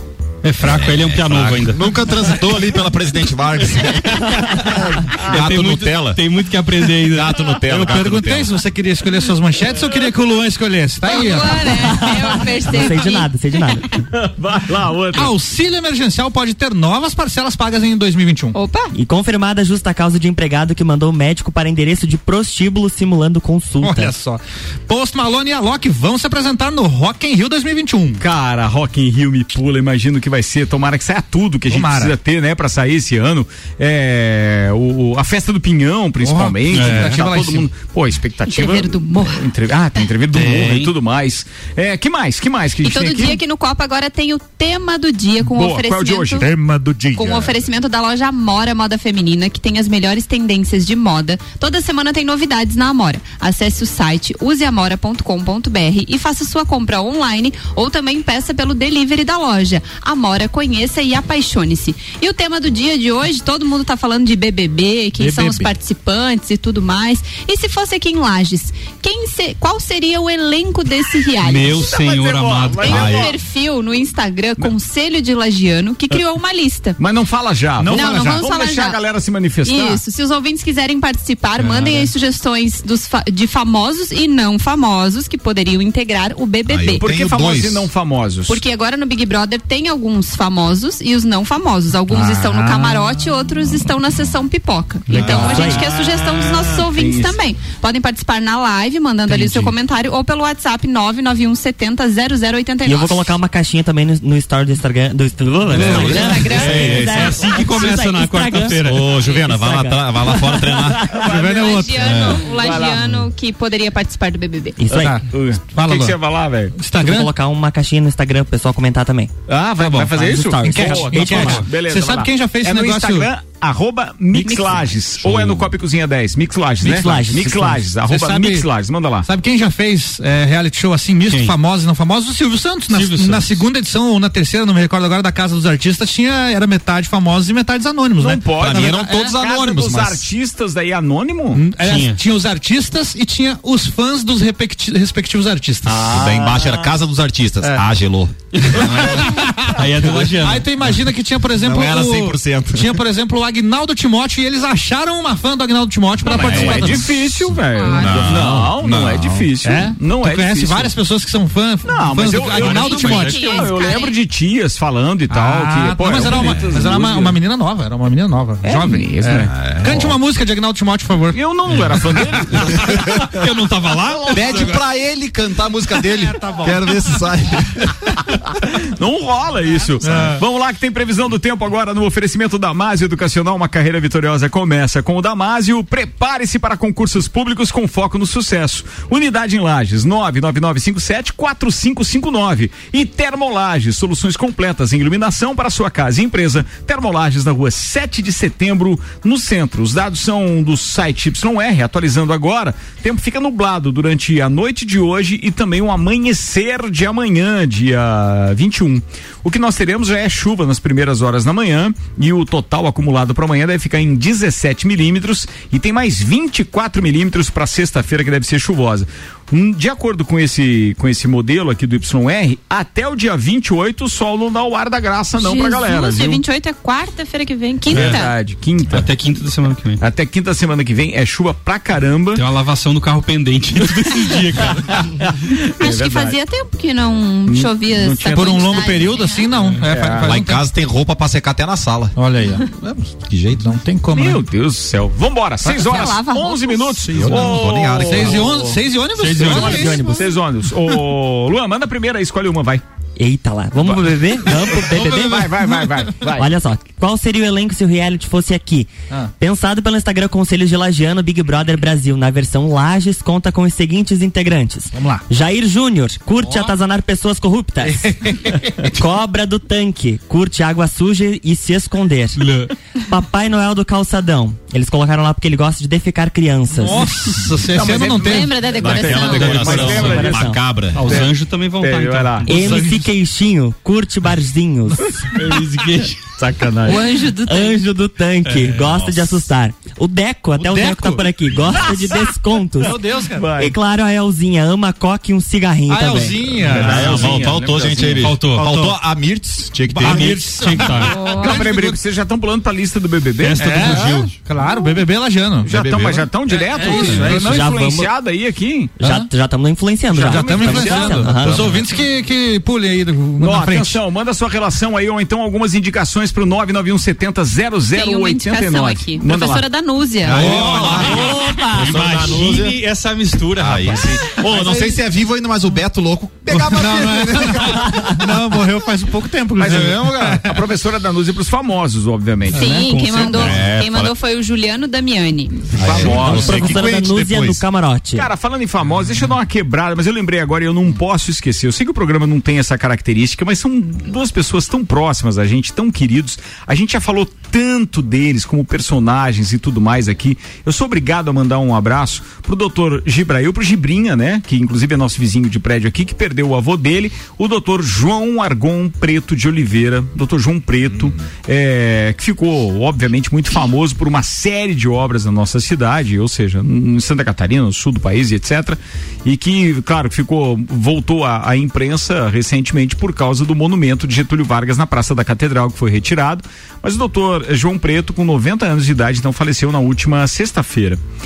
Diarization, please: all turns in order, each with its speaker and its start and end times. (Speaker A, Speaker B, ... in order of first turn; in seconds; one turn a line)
Speaker A: 0.4-1.9
Speaker B: 0.6-6.2
Speaker A: 5.2-7.5
Speaker B: 7.0-8.6
Speaker C: 7.7-12.0
Speaker D: 11.0-13.3
Speaker E: 12.7-13.8
Speaker F: 14.1-15.3
Speaker C: 15.1-18.6
Speaker D: 18.5-18.9
Speaker E: 18.9-24.1
Speaker C: 23.8-28.2
Speaker F: 28.2-43.4
Speaker C: 31.7-32.1
Speaker C: 36.2-37.7
Speaker A: 36.7-37.1
Speaker D: 38.5-39.5
Speaker A: 40.3-40.9
Speaker D: 42.8-46.5
Speaker F: 45.4-46.5
Speaker C: 46.4-47.5
Speaker D: 47.1-71.8
Speaker C: 65.2-65.7
Speaker A: 71.4-73.0
Speaker F: 71.7-73.4
Speaker D: 72.8-77.0
Speaker B: 72.8-73.3
Speaker F: 77.0-80.0
Speaker C: 77.8-78.5
Speaker D: 77.9-79.0
Speaker D: 79.6-87.1
Speaker A: 81.6-82.1
Speaker B: 86.7-87.9
Speaker F: 86.9-88.6
Speaker D: 88.5-103.3
Speaker C: 92.1-93.1
Speaker E: 95.1-95.8
Speaker F: 95.2-97.3
Speaker E: 102.8-111.0
Speaker B: 105.7-107.4
Speaker A: 105.7-109.1
Speaker D: 105.9-107.3
Speaker B: 108.8-111.2
Speaker F: 110.9-113.1
Speaker C: 111.1-112.1
Speaker D: 111.3-114.8
Speaker B: 111.9-112.4
Speaker E: 114.8-115.2
Speaker F: 114.9-116.7
Speaker C: 114.9-116.2
Speaker C: 116.8-117.3
Speaker E: 117.0-121.6
Speaker F: 119.5-129.3
Speaker C: 120.6-123.3
Speaker C: 124.3-124.6
Speaker D: 124.5-124.8
Speaker E: 126.8-127.8
Speaker C: 128.1-128.7
Speaker C: 129.2-139.2
Speaker A: 131.3-131.6
Speaker A: 132.9-133.5
Speaker F: 138.2-141.6
Speaker B: 138.6-140.3
Speaker C: 141.5-146.2
Speaker A: 141.8-142.2
Speaker B: 145.8-149.3
Speaker F: 145.9-146.9
Speaker C: 148.7-157.1
Speaker A: 149.8-150.7
Speaker B: 151.6-153.0
Speaker F: 156.2-160.9
Speaker B: 156.3-159.5
Speaker D: 157.7-158.3
Speaker C: 159.6-163.6
Speaker F: 161.8-167.4
Speaker A: 162.5-163.6
Speaker D: 162.7-164.2
Speaker C: 165.3-171.4
Speaker F: 168.6-170.1
Speaker B: 169.5-170.1
Speaker F: 171.3-173.0
Speaker A: 172.7-174.8
Speaker B: 174.3-177.9
Speaker C: 176.0-177.0
Speaker F: 178.9-226.4
Speaker C: 180.0-180.4
Speaker D: 225.4-228.3
Speaker F: 227.9-229.1
Speaker A: 227.9-228.2
Speaker A: 228.9-230.0
Speaker F: 230.0-232.4
Speaker A: 232.3-235.1
Speaker F: 235.2-236.3
Speaker D: 235.8-239.6
Speaker F: 237.5-239.2
Speaker C: 238.3-240.7
Speaker F: 239.8-240.4
Speaker B: 240.2-242.2
Speaker C: 242.2-243.1
Speaker B: 243.2-243.8
Speaker C: 243.6-244.4
Speaker F: 244.1-248.8
Speaker D: 245.6-247.0
Speaker C: 247.1-250.3
Speaker B: 247.1-248.6
Speaker A: 249.2-250.0
Speaker F: 249.4-252.8
Speaker E: 249.4-250.3
Speaker E: 253.2-255.5
Speaker F: 253.8-256.5
Speaker C: 254.9-255.9
Speaker E: 256.4-268.1
Speaker C: 264.9-265.2
Speaker C: 266.4-266.7
Speaker C: 267.8-268.9
Speaker E: 268.8-272.4
Speaker A: 272.4-272.7
Speaker E: 273.1-277.1
Speaker C: 276.7-278.6
Speaker F: 277.7-282.5
Speaker D: 278.2-279.8
Speaker B: 278.8-281.1
Speaker A: 278.9-280.4
Speaker E: 279.4-280.6
Speaker A: 280.9-282.8
Speaker E: 282.5-285.1
Speaker C: 282.5-283.1
Speaker A: 285.3-286.3
Speaker F: 286.4-287.0
Speaker D: 286.8-287.8
Speaker E: 287.4-293.0
Speaker A: 288.4-288.9
Speaker B: 288.8-289.4
Speaker C: 290.6-292.1
Speaker C: 292.8-293.5
Speaker F: 293.3-293.8
Speaker E: 293.6-296.6
Speaker C: 295.9-297.5
Speaker F: 296.6-298.3
Speaker B: 296.7-300.4
Speaker A: 298.1-298.7
Speaker C: 298.5-299.0
Speaker A: 299.9-301.2
Speaker C: 300.0-302.0
Speaker D: 301.1-301.6
Speaker F: 301.4-304.1
Speaker A: 303.4-304.4
Speaker C: 303.6-305.7
Speaker D: 304.6-304.9
Speaker B: 305.6-306.3
Speaker F: 305.6-308.9
Speaker C: 306.7-307.6
Speaker E: 307.1-308.1
Speaker E: 309.0-311.6
Speaker C: 309.0-309.3
Speaker C: 310.1-314.0
Speaker F: 310.2-311.2
Speaker B: 311.2-311.9
Speaker F: 313.4-319.6
Speaker D: 317.9-320.5
Speaker B: 320.2-322.8
Speaker A: 320.3-324.4
Speaker C: 320.3-321.2
Speaker B: 323.6-328.3
Speaker D: 324.6-324.9
Speaker C: 326.6-330.5
Speaker B: 329.6-330.5
Speaker F: 330.4-332.7
Speaker D: 332.5-335.7
Speaker C: 332.6-333.4
Speaker A: 332.8-333.5
Speaker B: 333.3-334.1
Speaker B: 335.7-337.6
Speaker F: 335.7-336.7
Speaker E: 336.1-338.3
Speaker C: 336.2-336.8
Speaker F: 338.1-381.0